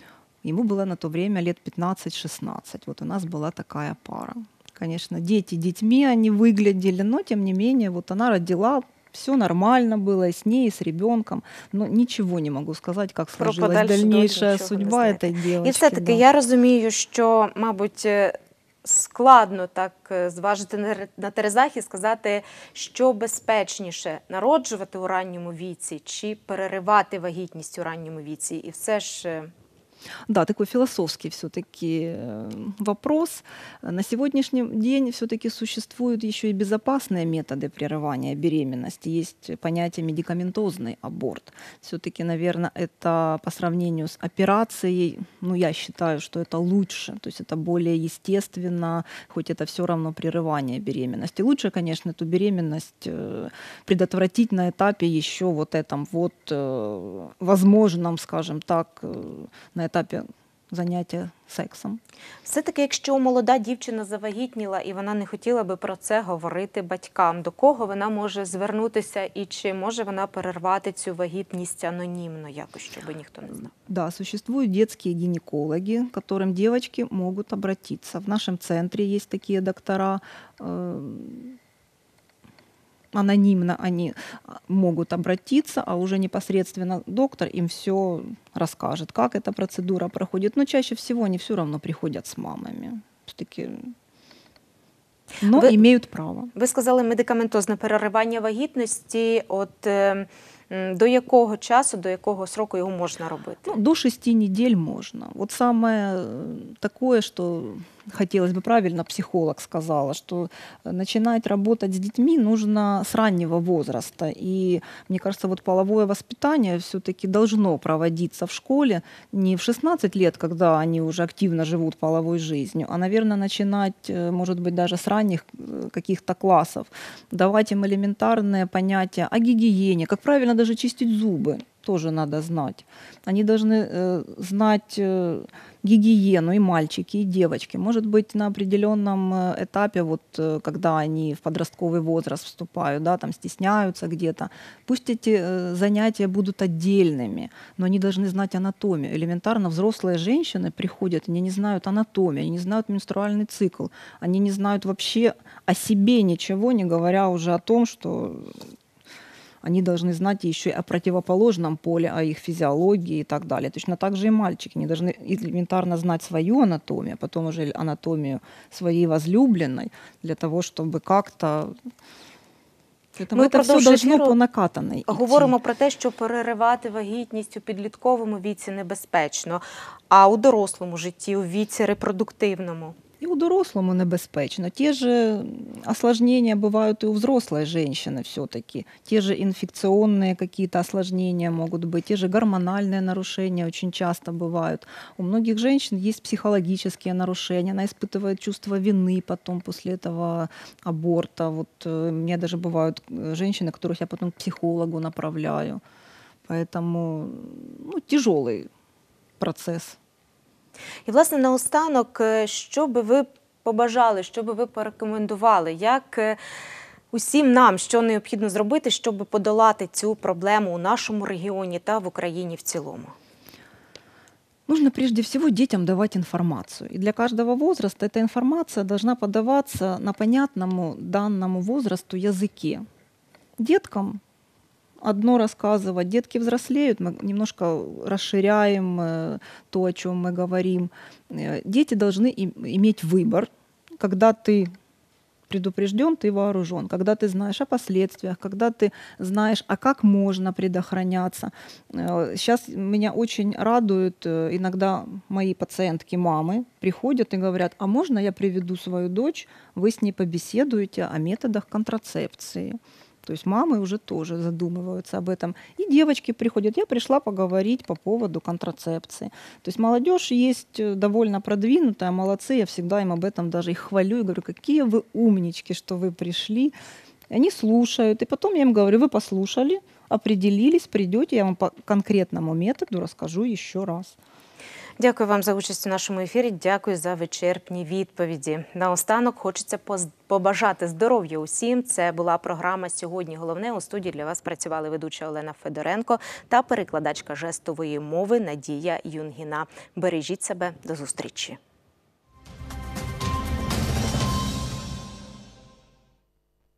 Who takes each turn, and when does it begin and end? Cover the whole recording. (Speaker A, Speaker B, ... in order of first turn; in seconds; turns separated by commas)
Speaker A: 0.4-16.2, Speaker B: 13.4-29.5, Speaker A: 30.3-62.0, Speaker B: 62.5-73.7, Speaker A: 73.9-81.6, Speaker A: 83.1-93.9, Speaker A: 95.4-96.5, Speaker B: 95.5-95.9, Speaker B: 96.5-103.8, Speaker A: 103.7-158.6, Speaker A: 159.6-171.7, Speaker A: 173.2-175.6, Speaker B: 173.3-174.4, Speaker B: 175.1-183.0, Speaker A: 183.2-205.8, Speaker A: 206.5-208.7, Speaker A: 209.4-210.0, Speaker B: 211.1-216.4, Speaker B: 217.1-223.2, Speaker A: 224.7-232.9, Speaker A: 233.6-234.2, Speaker A: 235.0-244.7, Speaker A: 245.5-276.7, Speaker A: 277.3-284.2, Speaker B: 285.0-301.6